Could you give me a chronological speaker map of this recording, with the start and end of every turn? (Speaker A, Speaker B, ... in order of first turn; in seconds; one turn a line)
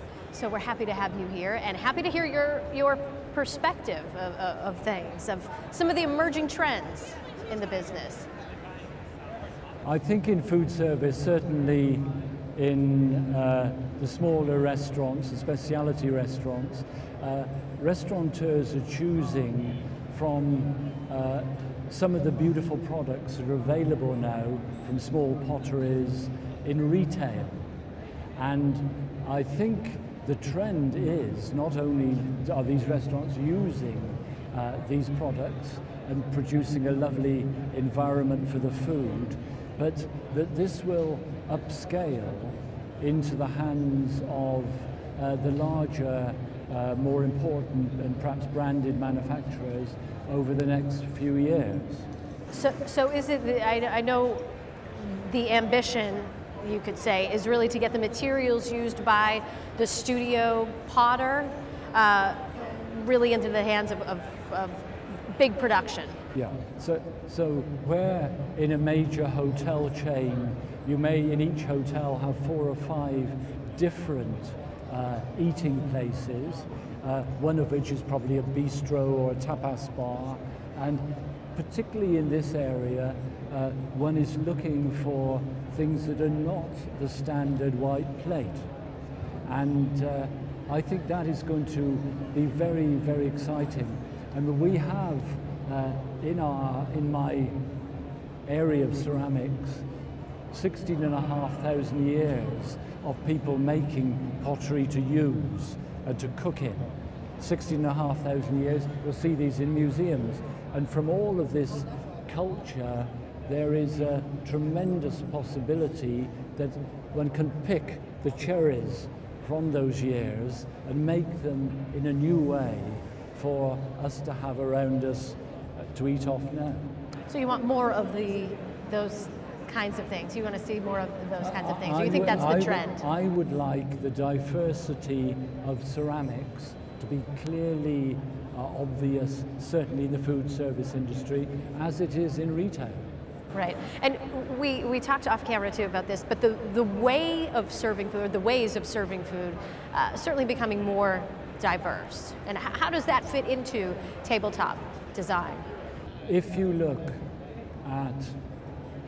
Speaker A: 0.3-8.3
Speaker B: 9.8-27.6
Speaker B: 28.4-52.1
Speaker A: 52.5-66.2
Speaker B: 66.3-88.7
Speaker B: 89.4-97.6
Speaker B: 98.5-99.8
Speaker B: 100.5-106.8
Speaker B: 107.4-126.9
Speaker A: 127.3-133.0
Speaker B: 131.4-143.0
Speaker A: 143.5-155.7
Speaker B: 156.2-157.2
Speaker B: 157.8-158.4